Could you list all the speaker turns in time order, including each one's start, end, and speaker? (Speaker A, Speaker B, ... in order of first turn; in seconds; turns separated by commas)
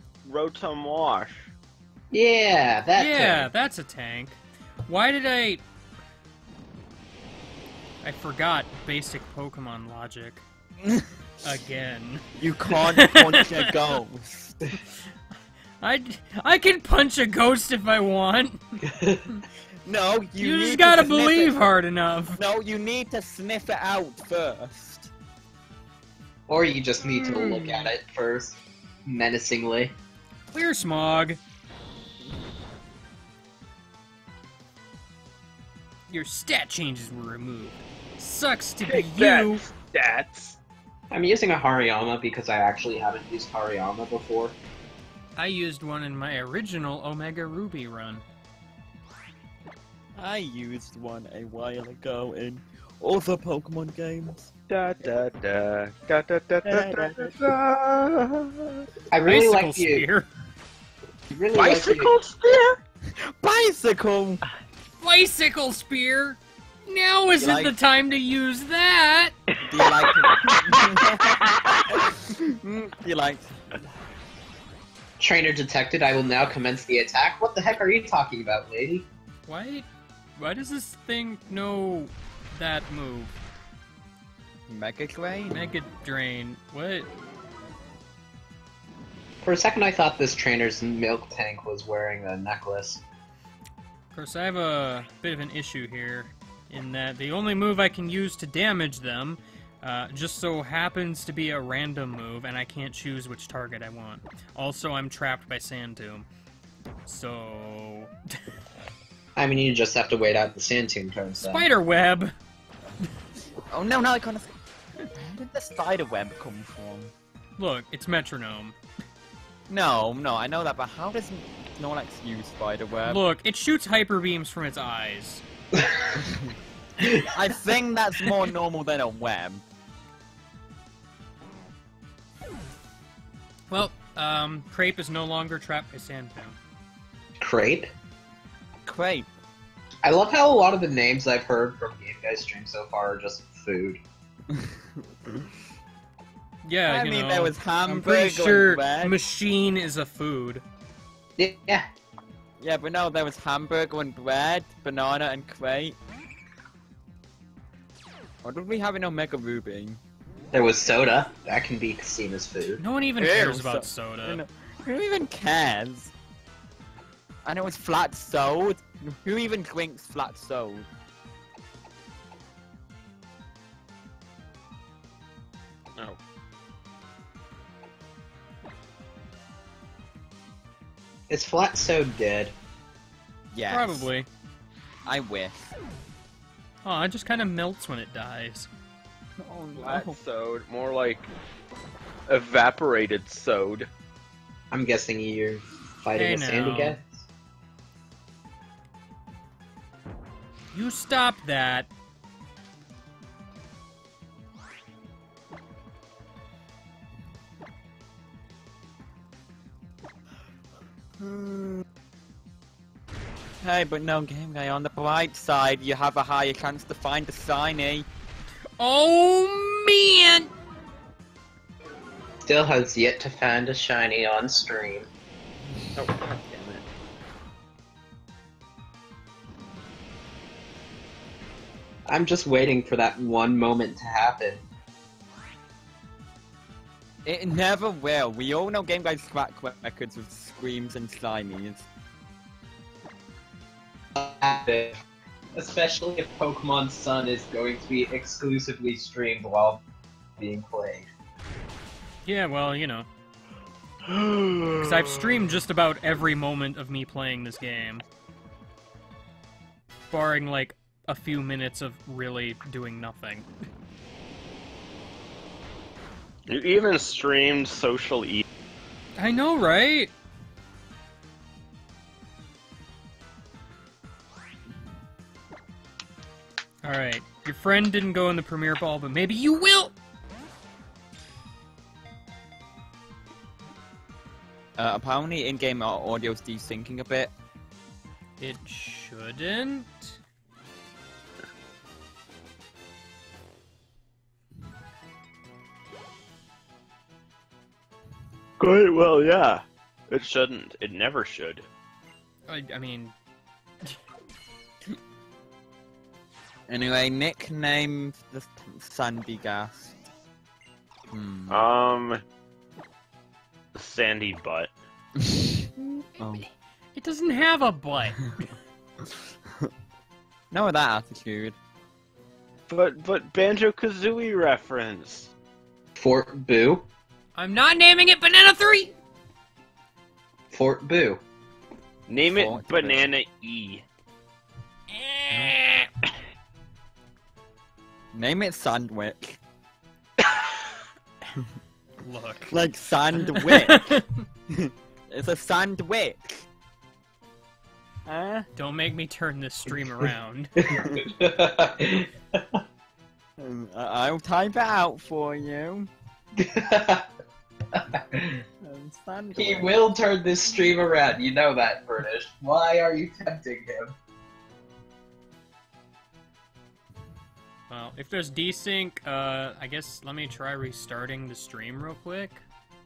Speaker A: 0.2-1.5, Speaker B: 2.1-3.5, Speaker C: 3.0-5.6, Speaker C: 8.0-10.4, Speaker D: 10.8-11.1, Speaker C: 11.4-13.7, Speaker D: 12.4-14.6, Speaker C: 15.8-18.8, Speaker B: 18.9-19.3, Speaker D: 19.8-21.8, Speaker C: 20.4-22.4, Speaker D: 22.4-25.1, Speaker B: 26.5-29.9, Speaker C: 27.0-27.9, Speaker C: 30.5-31.4, Speaker C: 36.1-39.6, Speaker A: 38.9-40.6, Speaker B: 41.1-44.6, Speaker C: 45.4-48.2, Speaker D: 50.2-54.5, Speaker A: 54.7-58.8, Speaker D: 56.6-57.4, Speaker B: 59.1-60.1, Speaker C: 59.2-60.3, Speaker B: 61.3-62.1, Speaker A: 61.5-62.8, Speaker D: 63.2-64.4, Speaker C: 65.0-69.3, Speaker D: 67.4-67.8, Speaker D: 69.7-73.5, Speaker A: 69.7-72.0, Speaker B: 75.2-79.1, Speaker C: 79.5-83.4, Speaker D: 84.7-85.7, Speaker C: 85.5-87.1, Speaker B: 89.4-93.0, Speaker C: 94.1-106.3, Speaker C: 107.1-108.4, Speaker B: 109.4-111.7, Speaker C: 111.4-112.3, Speaker D: 113.7-114.5, Speaker D: 115.1-117.1, Speaker C: 117.6-118.8, Speaker D: 119.7-123.2, Speaker C: 123.1-125.4, Speaker D: 127.3-129.7, Speaker C: 133.7-136.6, Speaker B: 137.4-137.9, Speaker D: 138.9-139.3, Speaker B: 140.0-144.0, Speaker C: 146.6-150.6, Speaker D: 146.9-149.2, Speaker B: 151.4-151.9, Speaker D: 152.6-156.0, Speaker D: 158.4-160.0, Speaker B: 160.5-162.8, Speaker C: 162.8-164.4, Speaker D: 163.2-166.1, Speaker D: 167.4-170.9, Speaker B: 181.3-182.5, Speaker D: 183.5-184.1, Speaker C: 183.7-184.3, Speaker D: 185.1-185.8, Speaker C: 186.8-188.7, Speaker D: 189.4-190.2, Speaker A: 189.8-191.3, Speaker A: 192.3-193.9, Speaker B: 194.7-197.2, Speaker C: 196.1-197.0, Speaker C: 200.7-201.9, Speaker D: 211.2-211.8, Speaker D: 213.6-218.1, Speaker C: 218.8-220.5, Speaker B: 222.5-225.1, Speaker A: 225.9-226.9, Speaker B: 232.1-234.6, Speaker D: 237.2-241.9, Speaker B: 244.2-244.9, Speaker B: 245.6-249.8, Speaker B: 250.4-251.1, Speaker C: 252.2-253.1, Speaker A: 254.1-255.6, Speaker C: 254.8-258.0, Speaker C: 260.1-263.5, Speaker A: 266.5-268.4, Speaker C: 269.2-270.1, Speaker C: 276.8-279.9, Speaker D: 284.8-287.3, Speaker C: 288.4-290.2, Speaker A: 298.6-301.7, Speaker C: 302.5-303.1, Speaker D: 306.7-310.0, Speaker D: 311.1-311.6, Speaker A: 311.5-312.2, Speaker A: 313.8-314.7, Speaker D: 315.2-315.6, Speaker C: 315.8-318.3, Speaker D: 316.2-316.4, Speaker D: 320.5-321.6, Speaker A: 322.7-325.3, Speaker B: 325.9-326.9, Speaker C: 327.4-328.9, Speaker B: 330.5-331.2, Speaker A: 332.1-333.9, Speaker D: 332.3-333.0, Speaker C: 334.9-335.9, Speaker D: 338.1-339.4, Speaker C: 342.0-342.6, Speaker D: 342.5-343.9, Speaker C: 343.1-344.2, Speaker D: 344.5-346.5, Speaker D: 348.1-348.5, Speaker C: 348.6-350.5, Speaker B: 350.6-352.4, Speaker D: 353.4-355.9, Speaker B: 356.4-357.1, Speaker B: 357.8-358.4, Speaker D: 358.6-359.8, Speaker B: 359.4-363.9, Speaker C: 367.7-372.4